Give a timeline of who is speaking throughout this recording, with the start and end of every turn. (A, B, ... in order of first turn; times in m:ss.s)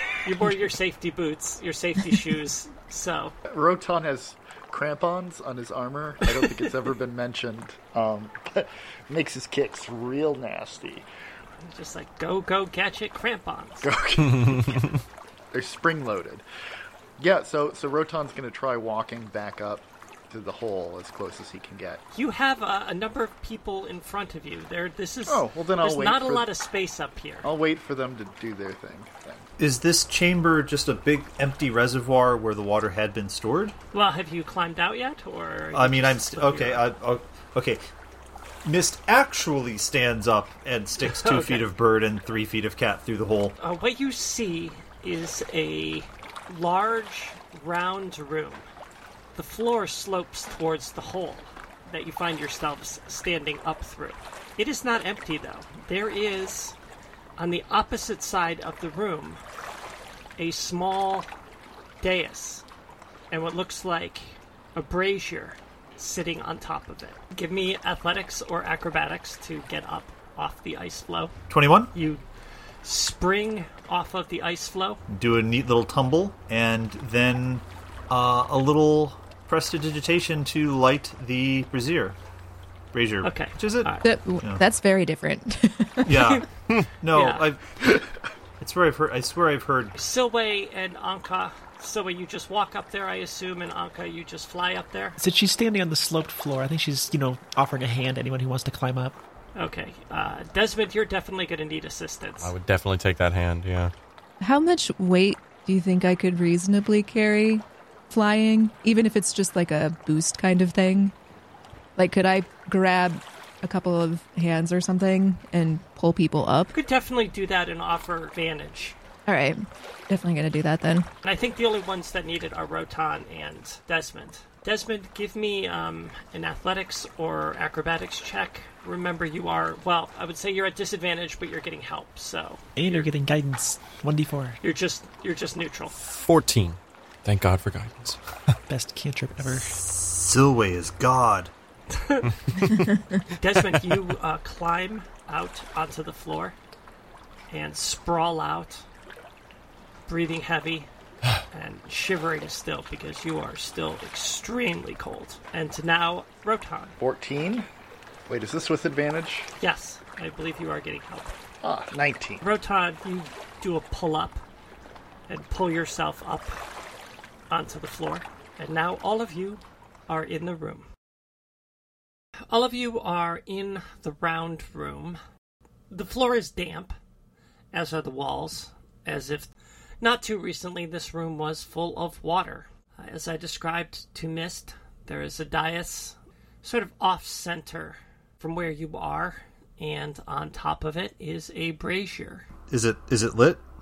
0:00.2-0:03.4 A
0:03.5-0:11.1 B
0:11.6-0:13.9 A
0:13.8-0:15.0 B
0:15.5-0:16.4 B
0:17.2-0:22.0 B
0:22.1-0:27.5 A
0:25.3-0:26.5 B
0:27.4-0:29.5 B
0:29.6-0:33.8 C
0:33.9-0:36.9 A
0:35.7-0:37.8 C
0:38.6-0:43.6 C
0:41.0-0:41.7 A
0:43.6-0:48.7 A
0:49.4-0:56.8 A
0:57.4-0:59.4 A
1:00.4-1:01.3 A
1:02.0-1:02.6 A
1:03.3-1:11.3 A
1:11.5-1:11.9 C
1:11.9-1:12.2 A
1:12.8-1:15.0 A
1:15.1-1:22.2 C
1:22.9-1:24.6 C
1:23.2-1:24.1 A
1:24.0-1:26.2 D
1:26.0-1:28.0 C
1:27.1-1:27.5 A
1:28.6-1:29.9 C
1:30.0-1:35.2 A
1:35.2-1:39.2 E
1:39.6-1:42.5 A
1:42.4-1:43.9 F
1:44.4-1:51.1 D
1:52.0-1:56.7 D
1:56.7-1:59.0 A
1:59.3-2:01.1 D
2:01.2-2:13.1 A
2:12.8-2:14.6 E
2:14.6-2:15.9 A
2:16.0-2:18.5 F
2:18.7-2:19.8 E
2:19.6-2:21.5 C
2:21.9-2:22.4 A
2:22.6-2:22.9 F
2:22.7-2:22.9 D
2:23.4-2:26.6 A
2:27.5-2:28.8 A
2:30.1-2:30.9 A
2:31.5-2:37.0 A
2:37.0-2:37.7 B
2:38.3-2:39.5 B
2:39.6-2:41.3 A
2:41.6-2:42.4 B
2:42.4-2:44.4 A
2:45.3-2:46.6 A
2:47.5-2:50.9 A
2:52.5-2:55.2 A
2:55.9-2:57.0 A
2:57.7-3:12.5 A
3:12.7-3:13.6 C